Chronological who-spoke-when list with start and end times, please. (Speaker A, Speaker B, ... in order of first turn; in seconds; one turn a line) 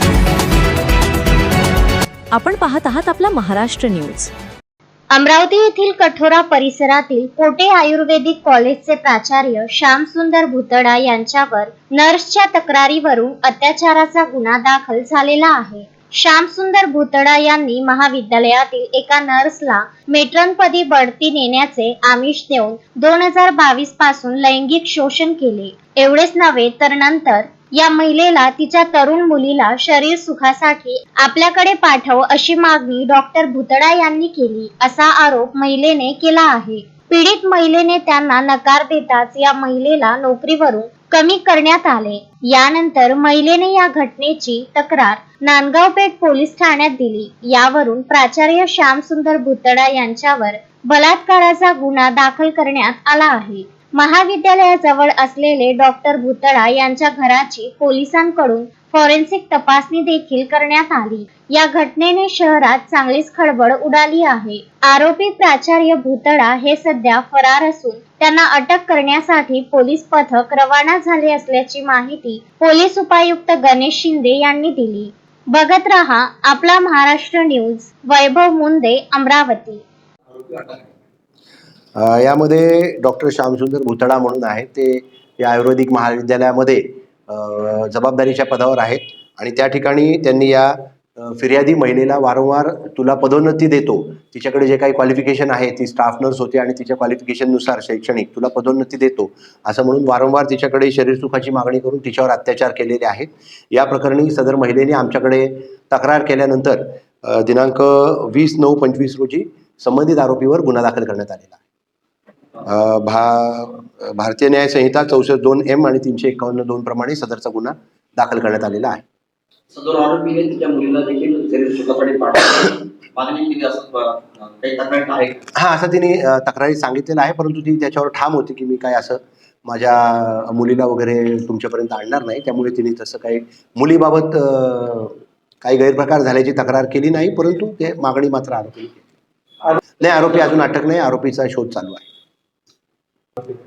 Speaker A: 2.3-4.3
Speaker B: 5.1-79.8
Speaker C: 80.5-80.7
Speaker D: 81.9-111.5
Speaker D: 112.6-119.0
Speaker C: 119.7-125.3
Speaker D: 125.5-139.0
Speaker D: 140.0-142.1